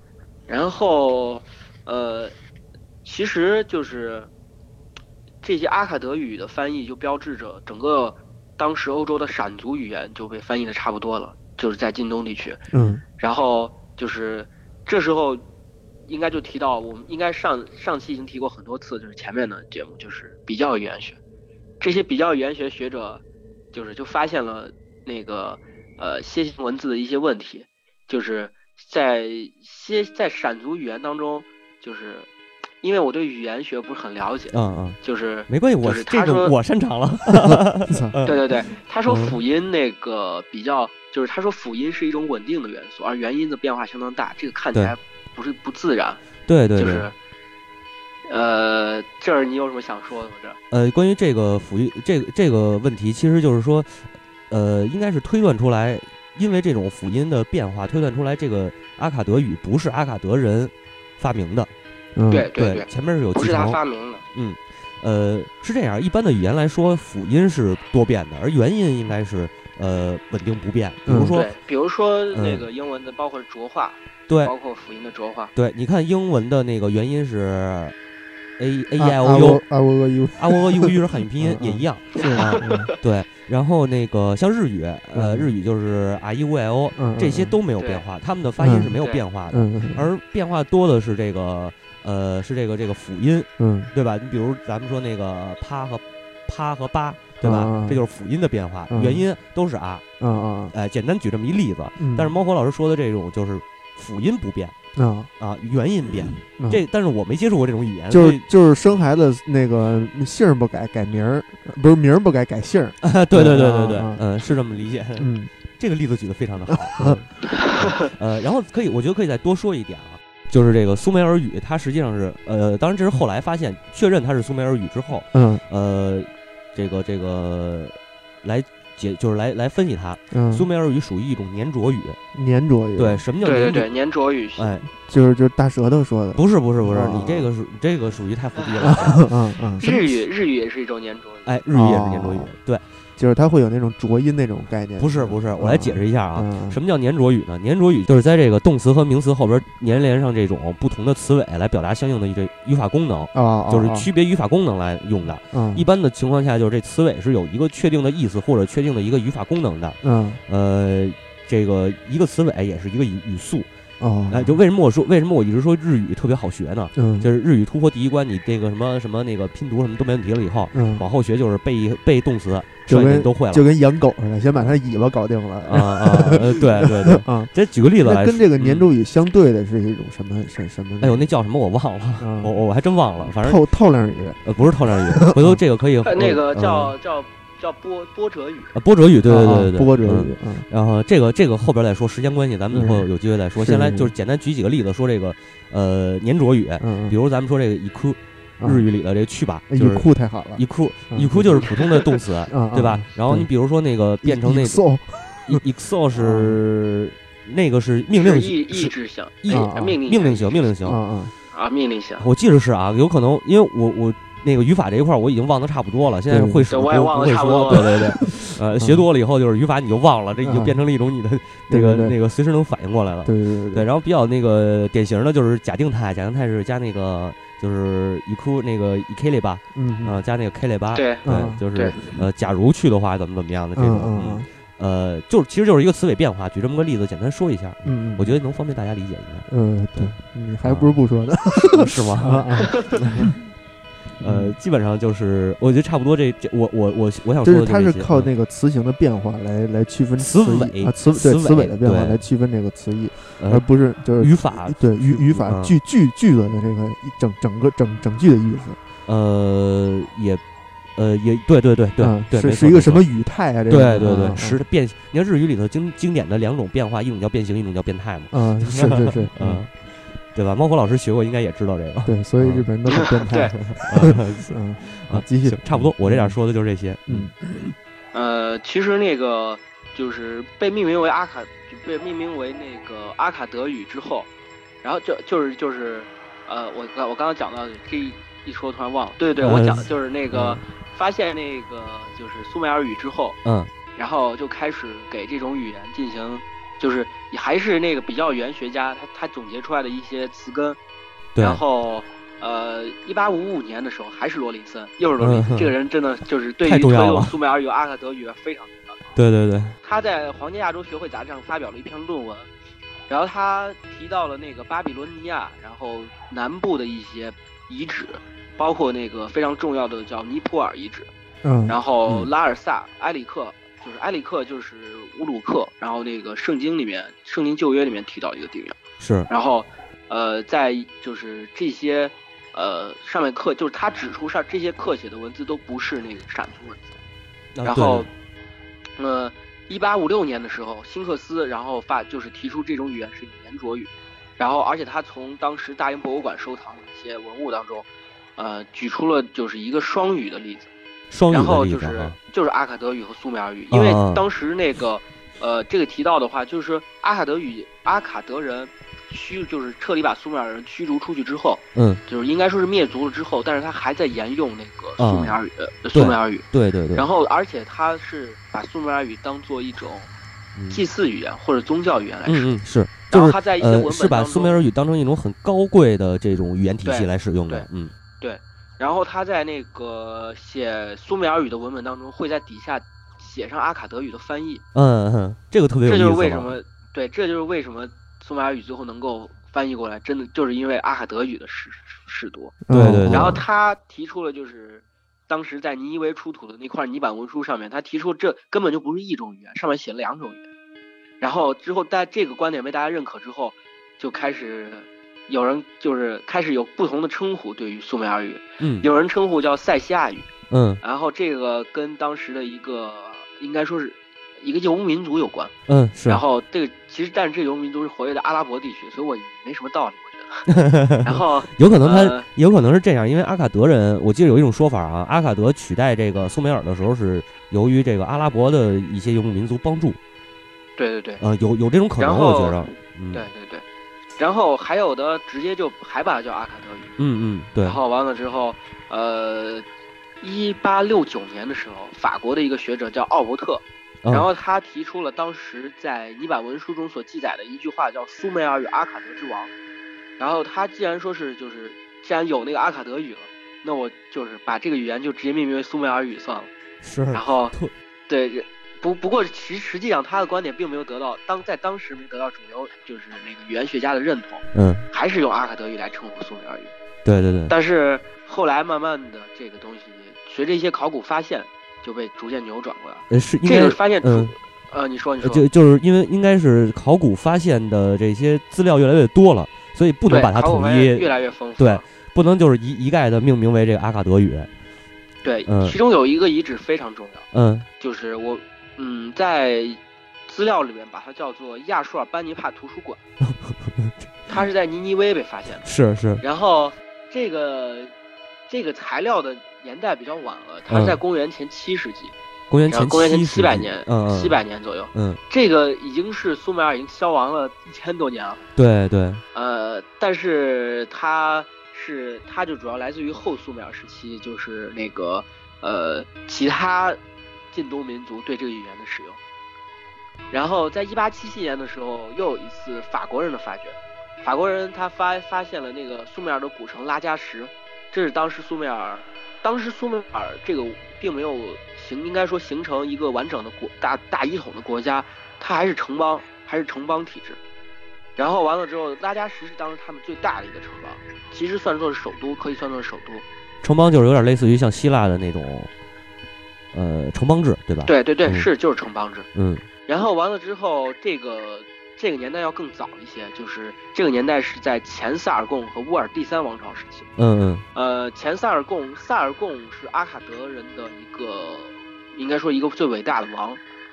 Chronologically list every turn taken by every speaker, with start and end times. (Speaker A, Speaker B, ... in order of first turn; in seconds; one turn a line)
Speaker A: 0.5-2.3
Speaker A: 3.0-4.3
Speaker A: 5.4-12.6
Speaker B: 12.7-13.0
Speaker A: 13.2-15.4
Speaker A: 16.1-21.2
Speaker A: 21.8-32.3
Speaker A: 32.8-36.5
Speaker C: 34.5-38.5
Speaker B: 37.4-38.1
Speaker A: 38.2-46.2
Speaker C: 39.1-39.4
Speaker C: 46.5-47.1
Speaker A: 46.8-47.1
Speaker A: 48.3-50.6
Speaker C: 50.7-61.7
Speaker B: 62.1-62.5
Speaker A: 62.3-64.2
Speaker C: 62.5-63.8
Speaker C: 64.3-71.5
Speaker B: 71.1-71.4
Speaker A: 71.3-75.5
Speaker C: 72.3-72.6
Speaker C: 75.5-77.9
Speaker C: 78.6-79.6
Speaker B: 79.0-82.9
Speaker C: 80.4-100.0
Speaker A: 82.2-83.0
Speaker B: 85.1-85.5
Speaker B: 87.0-87.6
Speaker A: 87.8-88.0
Speaker B: 88.6-89.0
Speaker B: 89.5-90.1
Speaker B: 93.6-93.9
Speaker B: 97.4-98.0
Speaker B: 98.9-99.2
Speaker B: 100.2-100.7
Speaker C: 100.7-104.7
Speaker B: 102.0-102.3
Speaker B: 105.0-105.3
Speaker C: 105.4-108.4
Speaker B: 106.4-106.8
Speaker B: 108.1-114.2
Speaker C: 113.0-132.2
Speaker B: 115.2-115.5
Speaker B: 116.7-117.2
Speaker B: 125.3-125.6
Speaker B: 130.3-130.7
Speaker B: 132.3-133.2
Speaker C: 133.0-133.9
Speaker A: 133.4-134.8
Speaker C: 134.6-134.9
Speaker B: 135.0-137.5
Speaker C: 136.4-139.3
Speaker B: 138.8-140.0
Speaker A: 139.8-141.5
Speaker C: 141.4-142.8
Speaker B: 141.7-142.5
Speaker B: 143.2-146.8
Speaker C: 145.0-163.7
Speaker B: 153.3-154.1
Speaker B: 155.5-155.9
Speaker B: 160.0-160.4
Speaker B: 164.0-164.6
Speaker C: 164.3-173.6
Speaker B: 166.9-167.3
Speaker B: 170.7-171.1
Speaker B: 172.9-181.2
Speaker C: 175.6-178.9
Speaker C: 181.0-183.6
Speaker B: 182.2-182.6
Speaker B: 183.2-185.6
Speaker C: 184.4-186.9
Speaker A: 186.0-188.7
Speaker C: 188.7-204.8
Speaker B: 189.2-190.7
Speaker B: 192.7-194.1
Speaker B: 196.8-197.2
Speaker B: 198.6-198.9
Speaker B: 199.7-201.8
Speaker B: 202.5-203.5
Speaker B: 204.2-205.6
Speaker C: 205.4-211.0
Speaker B: 206.1-206.6
Speaker A: 208.1-210.6
Speaker B: 209.5-210.0
Speaker B: 210.8-211.3
Speaker A: 211.5-212.2
Speaker C: 212.2-241.0
Speaker B: 216.3-216.7
Speaker A: 216.7-218.1
Speaker B: 217.8-219.0
Speaker B: 220.4-220.8
Speaker B: 221.7-222.1
Speaker B: 223.2-223.9
Speaker B: 229.7-230.2
Speaker A: 230.9-232.0
Speaker B: 231.2-231.6
Speaker B: 233.8-234.5
Speaker B: 237.8-238.3
Speaker B: 239.5-243.3
Speaker C: 241.6-243.3
Speaker B: 244.2-244.6
Speaker C: 244.2-248.3
Speaker B: 247.4-258.8
Speaker C: 250.2-252.2
Speaker C: 253.4-255.8
Speaker C: 259.1-260.4
Speaker C: 261.0-263.1
Speaker B: 262.0-264.6
Speaker C: 263.7-273.1
Speaker B: 268.3-269.7
Speaker B: 272.0-276.4
Speaker A: 273.0-273.6
Speaker C: 273.7-277.3
Speaker B: 277.1-277.7
Speaker A: 278.1-284.3
Speaker A: 284.8-293.4
Speaker C: 289.4-290.6
Speaker C: 293.4-293.7
Speaker A: 293.9-300.8
Speaker C: 301.4-301.6
Speaker A: 301.4-309.0
Speaker C: 305.2-305.7
Speaker C: 306.6-307.3
Speaker C: 309.1-309.8
Speaker A: 309.8-312.5
Speaker A: 313.1-321.1
Speaker B: 321.4-321.8
Speaker A: 321.7-336.9
Speaker C: 329.0-329.3
Speaker C: 337.6-338.1
Speaker A: 337.6-338.1
Speaker A: 339.0-350.7
Speaker C: 351.1-352.1
Speaker A: 351.3-370.1
Speaker C: 353.7-354.2
Speaker C: 361.7-362.0
Speaker C: 365.0-365.4
Speaker C: 365.9-367.1
Speaker C: 370.6-370.8
Speaker A: 370.7-372.5
Speaker C: 372.3-377.9
Speaker A: 373.1-374.6
Speaker A: 376.9-377.7
Speaker A: 378.2-384.6
Speaker C: 384.7-386.6
Speaker A: 385.9-400.4
Speaker B: 392.6-393.4
Speaker C: 392.7-393.4
Speaker A: 401.2-410.3
Speaker C: 408.6-408.9
Speaker C: 410.5-410.8
Speaker A: 410.8-415.5
Speaker C: 415.7-416.2
Speaker A: 416.1-420.5
Speaker C: 420.5-430.0
Speaker A: 421.0-422.3
Speaker A: 430.8-431.2
Speaker C: 431.2-433.2
Speaker A: 432.0-433.6
Speaker A: 434.2-436.9
Speaker C: 437.0-437.8
Speaker A: 437.6-439.6
Speaker A: 440.2-449.5
Speaker A: 450.2-456.5
Speaker C: 456.8-457.7
Speaker A: 457.1-457.6
Speaker A: 458.1-466.7
Speaker C: 464.5-464.9
Speaker C: 467.1-467.5
Speaker A: 467.5-475.4
Speaker C: 473.1-474.3
Speaker C: 475.2-484.5
Speaker A: 480.1-481.8
Speaker A: 485.2-487.3
Speaker C: 485.5-485.8
Speaker C: 487.3-487.7
Speaker A: 487.8-493.0
Speaker C: 493.2-494.3
Speaker A: 494.3-495.6
Speaker C: 495.6-496.2
Speaker A: 496.2-497.9
Speaker A: 498.5-502.1
Speaker C: 500.7-501.0
Speaker C: 502.5-504.4
Speaker A: 502.7-508.4
Speaker C: 504.9-505.2
Speaker C: 508.6-509.2
Speaker A: 509.3-517.0
Speaker A: 517.5-519.2
Speaker A: 520.3-537.4
Speaker A: 538.2-543.2
Speaker C: 543.6-545.7
Speaker C: 546.7-548.5
Speaker A: 547.9-549.3
Speaker C: 549.4-549.6
Speaker A: 549.9-557.1
Speaker C: 557.2-557.6
Speaker A: 557.7-563.6